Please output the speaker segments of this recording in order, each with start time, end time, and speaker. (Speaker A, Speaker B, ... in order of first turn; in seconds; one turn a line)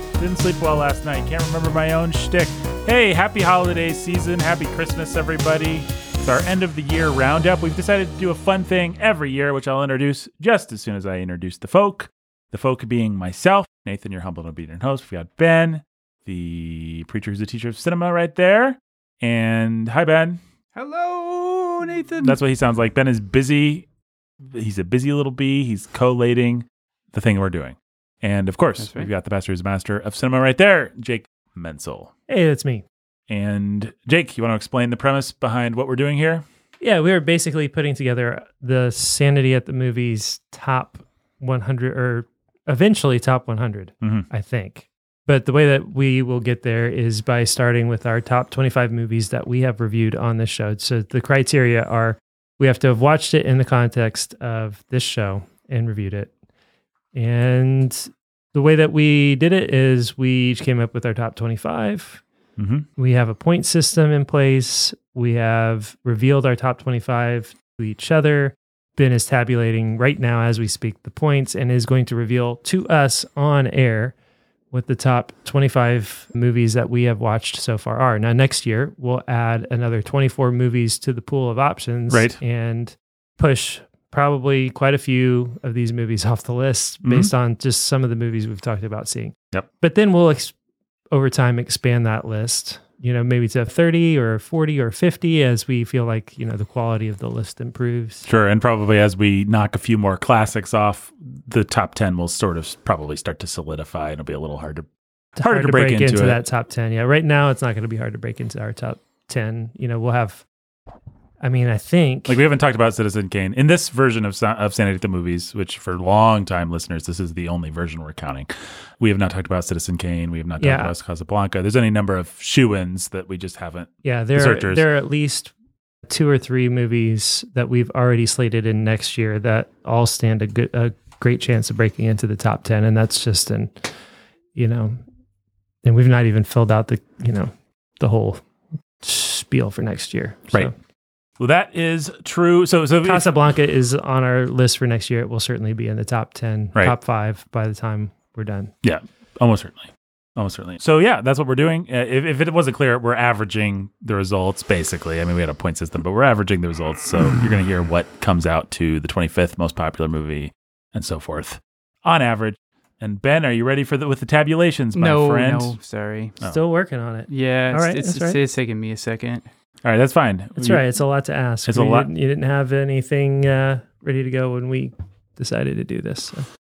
Speaker A: 0.2-20.4
Speaker B: 20.7-22.4
Speaker A: 22.2-23.8
Speaker A: 24.5-32.1
Speaker B: 28.8-29.1
Speaker C: 32.3-32.8
Speaker A: 33.3-36.4
Speaker C: 36.8-56.3
Speaker A: 44.0-44.3
Speaker C: 57.1-62.2
Speaker A: 62.6-62.9
Speaker C: 63.0-74.2
Speaker C: 74.7-90.5
Speaker A: 82.1-82.4
Speaker A: 87.0-87.3
Speaker C: 91.1-98.2
Speaker A: 98.2-104.9
Speaker C: 105.3-110.4
Speaker A: 105.4-106.4
Speaker C: 111.4-112.4
Speaker A: 112.3-118.5
Speaker A: 119.0-124.8
Speaker C: 120.6-120.9
Speaker C: 124.0-125.5
Speaker C: 126.1-133.9
Speaker C: 134.5-135.0
Speaker C: 135.8-138.4
Speaker C: 139.0-140.7
Speaker A: 141.4-143.3
Speaker C: 143.0-148.7
Speaker A: 148.8-165.7
Speaker B: 164.9-166.4
Speaker C: 166.4-168.4
Speaker B: 167.3-169.5
Speaker A: 169.8-170.8
Speaker C: 170.6-176.5
Speaker A: 171.7-172.1